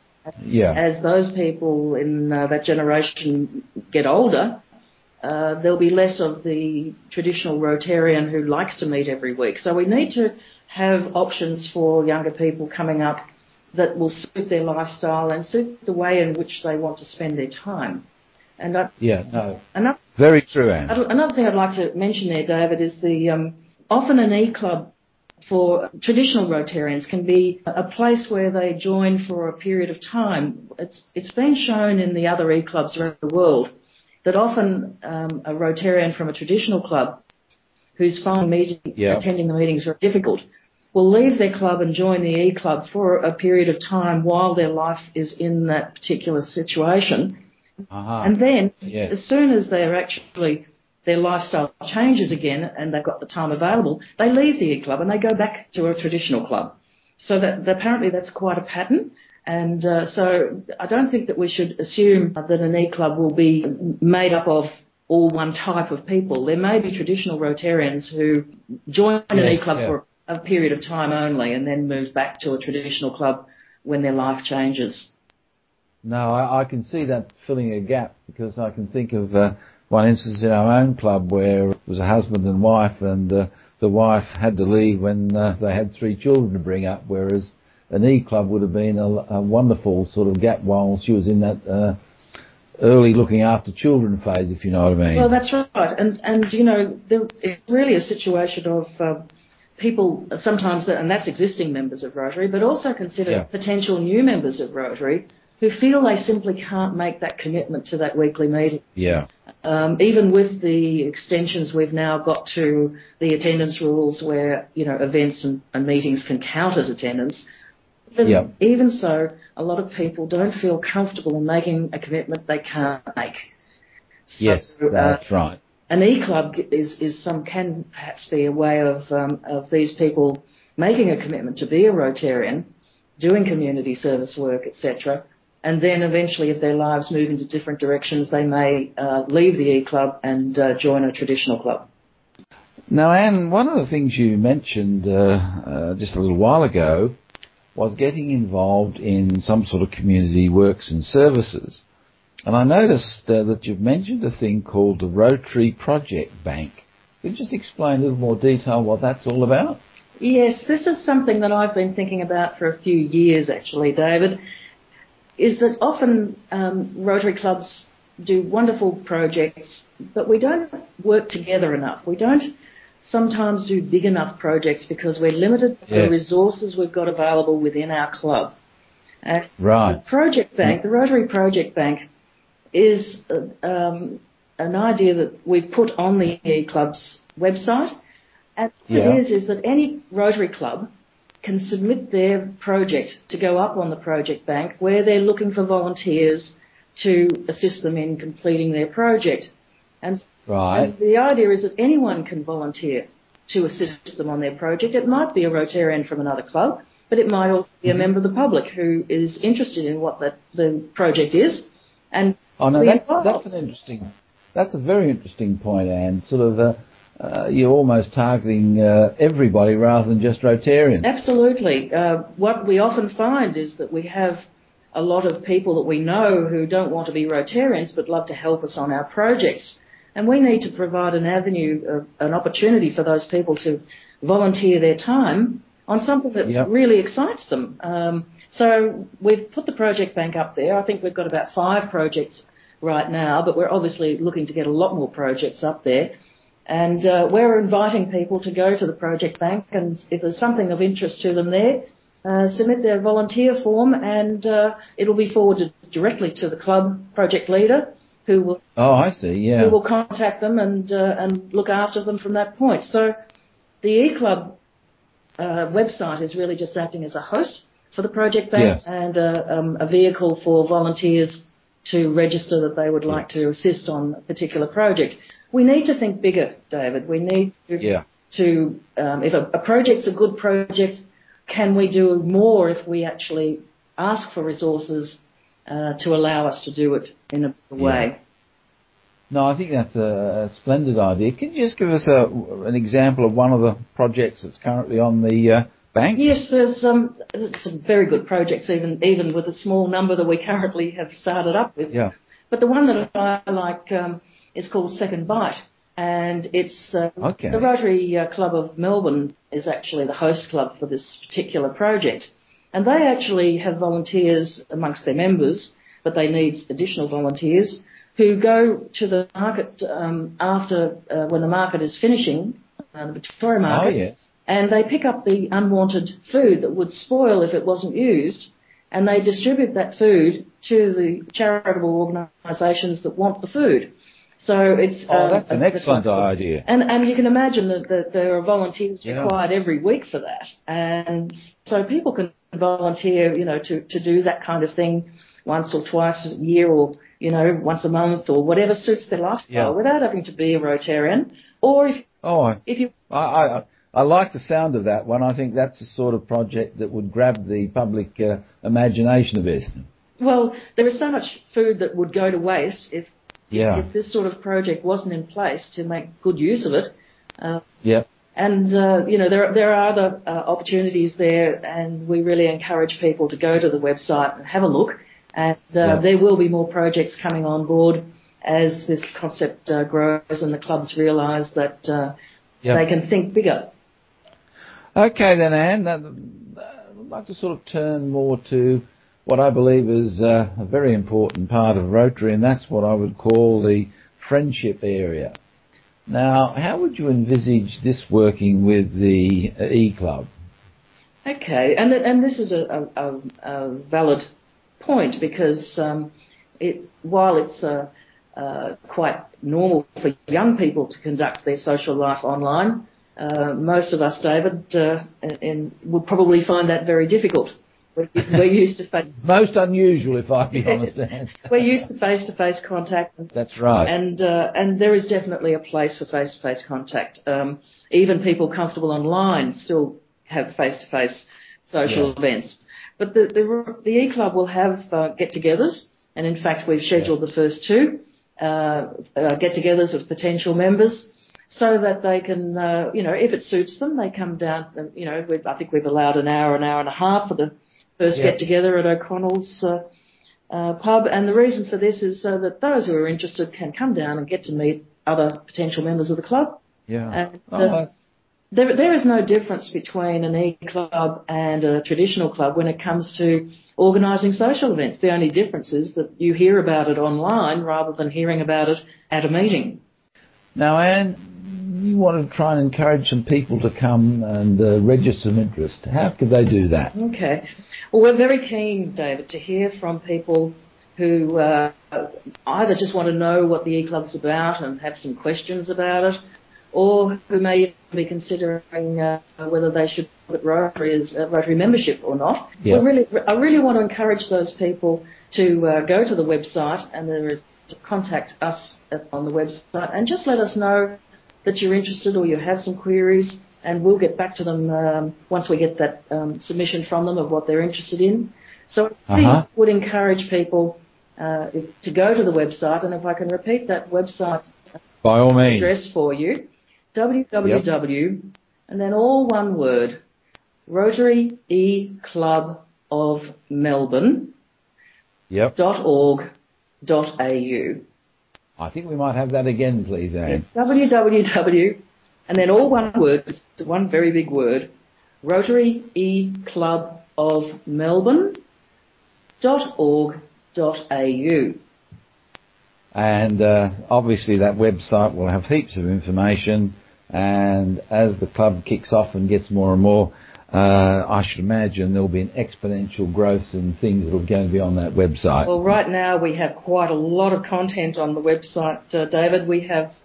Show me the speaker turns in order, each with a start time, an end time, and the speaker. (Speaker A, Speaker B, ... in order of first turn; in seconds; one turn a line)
Speaker A: 0.4-0.8
Speaker B: 0.4-4.6
Speaker B: 5.2-13.2
Speaker B: 13.7-18.0
Speaker B: 18.6-18.9
Speaker A: 19.0-19.6
Speaker B: 19.6-20.0
Speaker A: 20.1-21.0
Speaker B: 20.9-24.9
Speaker B: 25.4-33.7
Speaker B: 34.2-37.2
Speaker B: 38.0-40.4
Speaker A: 39.0-39.2
Speaker B: 40.9-47.4
Speaker A: 47.9-48.3
Speaker B: 48.2-75.1
Speaker A: 48.9-49.1
Speaker A: 69.3-69.9
Speaker A: 76.0-92.0
Speaker A: 92.8-95.3
Speaker B: 95.1-99.2
Speaker B: 99.8-108.9
Speaker A: 109.0-109.2
Speaker B: 109.6-117.5
Speaker B: 118.1-123.4
Speaker A: 118.2-118.5
Speaker B: 124.3-125.2
Speaker A: 124.4-125.6
Speaker B: 125.9-132.7
Speaker B: 133.2-141.9
Speaker A: 142.9-147.2
Speaker A: 147.7-151.8
Speaker A: 152.5-159.8
Speaker B: 160.2-164.4
Speaker B: 165.4-178.6
Speaker A: 175.9-176.2
Speaker B: 179.2-182.0
Speaker A: 179.6-180.0
Speaker B: 182.7-187.9
Speaker B: 188.6-190.9
Speaker A: 188.9-189.2
Speaker B: 191.4-213.4
Speaker A: 200.5-200.9
Speaker A: 212.6-221.2
Speaker B: 221.0-246.1
Speaker B: 246.7-258.6
Speaker A: 258.8-259.8
Speaker B: 259.6-263.1
Speaker B: 263.8-264.6
Speaker B: 265.4-288.2
Speaker A: 268.5-268.8
Speaker A: 287.8-288.1
Speaker A: 289.3-296.4
Speaker B: 296.1-323.9
Speaker A: 307.2-307.6
Speaker A: 323.7-324.2
Speaker B: 324.5-352.1
Speaker A: 335.1-336.6
Speaker A: 339.0-339.3
Speaker A: 352.2-359.9
Speaker B: 352.6-352.9
Speaker B: 360.2-367.6
Speaker A: 363.5-363.9
Speaker B: 368.3-382.1
Speaker B: 382.7-383.7
Speaker A: 384.9-395.4
Speaker A: 396.1-400.3
Speaker B: 401.2-404.2
Speaker B: 404.8-419.1
Speaker A: 419.2-421.7
Speaker B: 420.5-449.8
Speaker A: 423.3-423.9
Speaker A: 431.8-432.1
Speaker B: 450.5-457.8
Speaker A: 456.9-457.9
Speaker B: 458.5-469.8
Speaker A: 470.6-476.9
Speaker B: 476.9-486.1
Speaker B: 486.7-514.5
Speaker A: 509.1-509.4
Speaker A: 515.0-515.8
Speaker B: 515.4-520.0
Speaker B: 520.7-524.3
Speaker B: 525.5-526.3
Speaker B: 526.8-527.8
Speaker A: 528.6-530.4
Speaker B: 530.2-534.7
Speaker B: 535.2-538.4
Speaker B: 539.4-541.6
Speaker A: 542.9-555.6
Speaker B: 555.5-559.9